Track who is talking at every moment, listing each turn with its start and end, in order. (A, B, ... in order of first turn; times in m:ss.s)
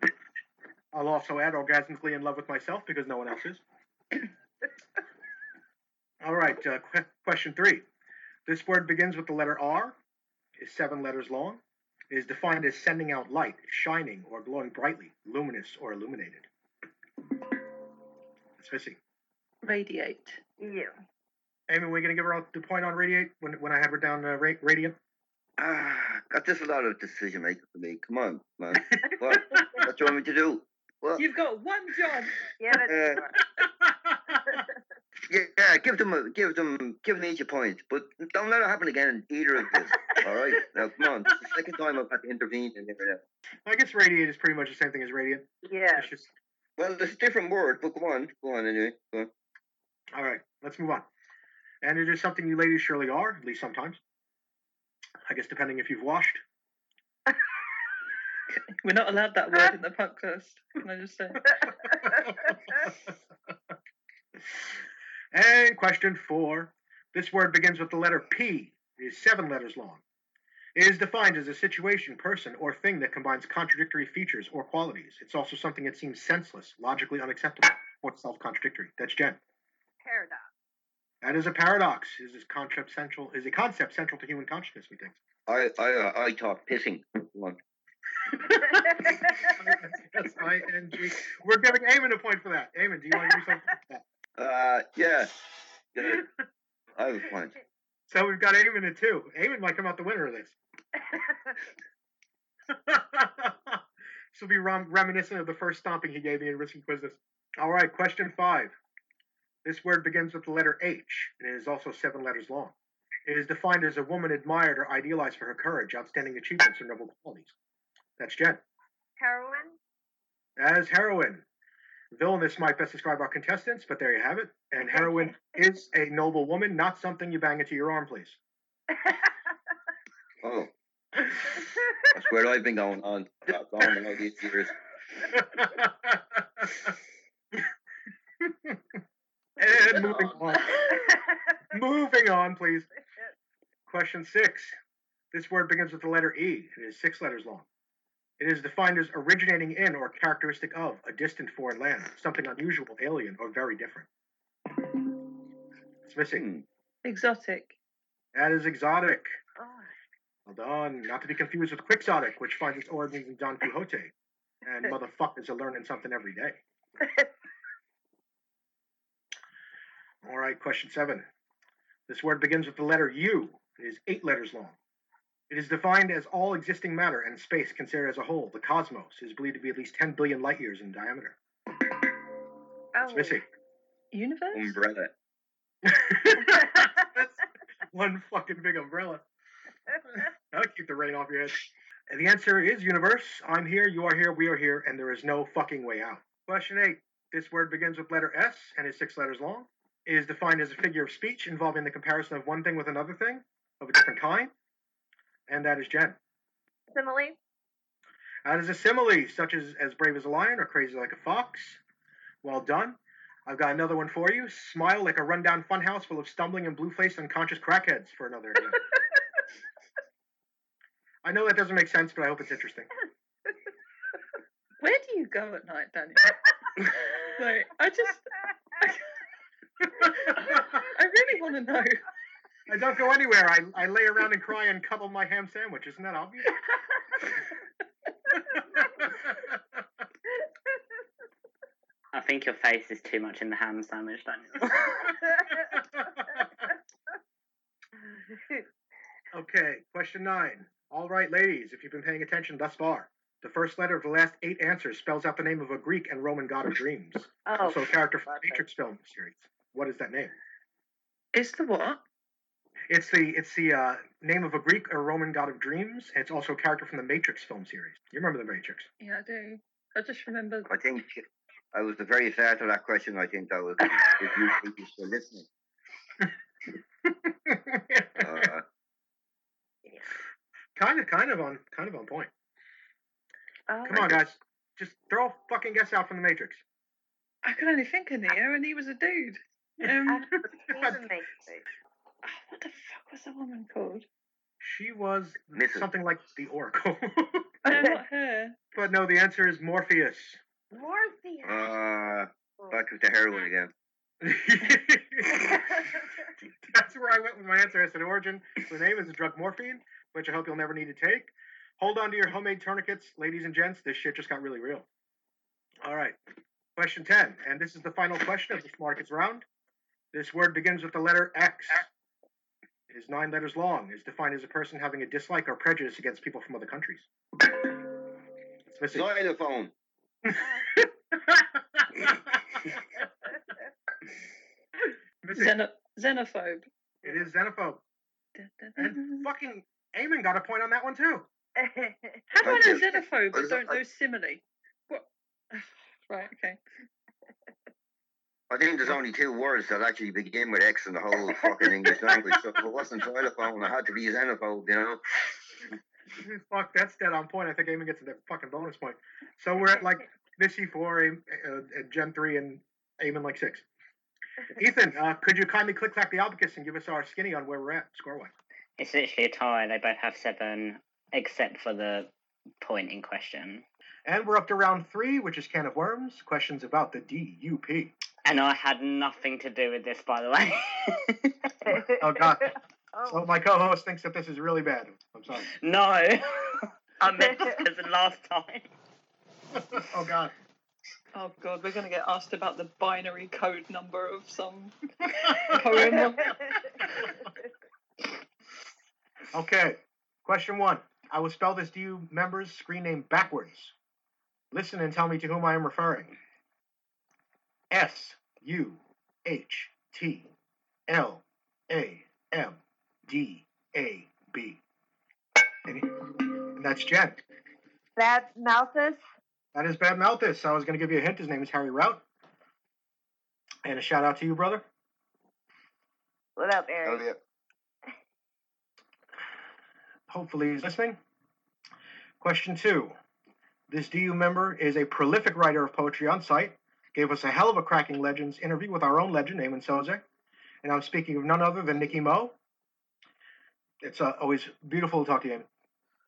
0:00.9-0:03.6 A
0:06.2-0:07.8 A
0:08.4-0:10.0 A
0:10.6-0:16.5 A
0:18.6-0:19.0 A
0:19.6-0:20.4 B
0:20.6-0:20.9 C
0:21.7-0:25.0 A
0:25.6-0:31.2 D
0:31.2-0:32.4 B
0:32.6-0:33.4 C
0:32.8-0:33.2 D
0:33.6-0:34.6 A
0:35.3-0:43.2 D
0:43.6-0:46.3 A
0:45.6-0:46.1 C
0:46.8-0:49.3 D
0:50.1-0:51.1 A
0:51.8-0:54.0 A
0:55.3-0:56.4 A
0:58.8-1:01.5 B
1:01.9-1:02.2 C
1:02.1-1:02.6 A
1:05.3-1:10.0 A
1:10.8-1:19.4 A
1:20.0-1:20.5 C
1:21.2-1:25.2 A
1:25.5-1:27.6 D
1:28.3-1:34.0 A
1:28.7-1:29.7 C
1:34.4-1:35.4 D
1:35.9-1:36.2 D
1:37.0-1:37.6 D
1:38.1-1:40.6 A
1:42.7-1:43.8 A
1:44.3-1:48.7 A
1:49.6-1:52.7 A
1:53.2-1:57.5 A
1:58.2-1:58.6 A
1:59.2-1:59.8 C
2:00.6-2:01.4 A
2:02.1-2:08.4 A
2:05.0-2:05.3 C
2:09.0-2:09.3 C
2:10.4-2:10.7 D
2:11.6-2:11.8 C
2:12.1-2:14.8 D
2:15.3-2:16.9 A
2:18.4-2:18.8 A
2:19.6-2:20.8 A
2:19.7-2:20.4 D
2:21.1-2:21.5 C
2:21.7-2:22.9 A
2:23.9-2:24.8 A
2:25.3-2:27.6 A
2:28.4-2:34.1 A
2:36.0-2:36.4 A
2:36.3-2:36.6 D
2:37.0-2:37.8 B
2:38.3-2:39.3 A
2:39.6-2:39.9 C
2:40.4-2:44.1 A
2:44.6-2:46.6 A
2:47.0-2:47.3 C
2:50.2-2:51.2 A
2:52.1-2:54.8 A
2:55.5-3:01.4 A
3:02.9-3:03.4 C
3:03.1-3:03.4 A
3:04.1-3:04.8 B
3:04.5-3:05.1 D
3:05.8-3:07.3 A
3:06.5-3:06.9 C
3:07.9-3:09.2 A
3:10.1-3:24.5 A
3:25.5-3:26.2 A
3:26.9-3:27.4 C
3:28.4-3:31.8 A
3:32.4-3:38.8 A
3:41.2-3:42.9 A
3:44.8-3:49.0 B
3:50.1-3:52.0 B
3:52.7-3:56.5 A
3:58.6-3:58.9 C
3:58.7-3:59.4 A
4:02.1-4:05.1 E
4:05.4-4:05.7 C
4:05.7-4:06.5 A
4:08.1-4:08.6 C
4:09.3-4:20.3 A
4:17.4-4:18.6 C
4:21.3-4:22.0 B
4:22.9-4:28.9 A
4:29.0-4:30.7 B
4:30.7-4:35.4 D
4:33.8-4:34.5 B
4:37.0-4:38.5 A
4:38.2-4:38.6 D
4:40.8-4:42.3 A
4:43.7-4:44.2 C
4:43.8-4:46.6 A
4:47.4-4:50.3 B
4:50.1-4:51.6 C
4:50.7-4:51.0 A
4:52.2-4:54.0 B
4:54.6-4:57.5 A
4:55.5-4:55.8 D
4:57.6-4:58.6 B
4:57.7-4:58.0 C
4:58.7-5:00.4 A
5:00.7-5:01.7 C
5:01.4-5:03.7 D
5:04.2-5:05.8 A
5:05.3-5:06.0 C
5:06.6-5:14.8 A
5:15.8-5:16.2 A
5:16.8-5:19.4 A
5:20.1-5:21.9 A
5:22.9-5:27.1 A
5:28.7-5:29.1 A
5:28.9-5:29.7 D
5:30.7-5:32.6 A
5:35.2-5:35.6 A
5:35.3-5:36.6 B
5:37.0-5:37.8 A
5:38.4-5:39.3 B
5:38.8-5:41.3 A
5:41.6-5:42.4 C
5:42.4-5:46.6 B
5:42.4-5:43.8 D
5:48.5-5:55.0 D
5:56.2-6:03.6 A
6:04.5-6:08.3 A
6:08.8-6:12.1 E
6:12.6-6:13.6 E
6:14.0-6:17.9 A
6:18.2-6:21.3 E
6:21.6-6:23.2 C
6:21.9-6:22.5 A
6:23.0-6:25.5 A
6:25.5-6:28.7 E
6:27.2-6:27.6 C
6:29.5-6:30.3 A
6:31.1-6:37.1 B
6:35.1-6:35.8 A
6:36.2-6:36.6 C
6:39.3-6:43.7 A
6:44.5-6:46.1 A
6:47.7-6:50.3 A
6:50.9-6:54.6 A
6:55.6-6:57.2 A
6:58.0-6:59.0 C
6:59.5-7:02.0 A
7:03.6-7:04.6 A
7:06.4-7:07.0 C
7:06.8-7:07.2 D
7:10.1-7:11.0 A
7:12.2-7:12.9 A
7:13.7-7:20.0 A
7:20.6-7:22.4 A
7:23.8-7:25.5 A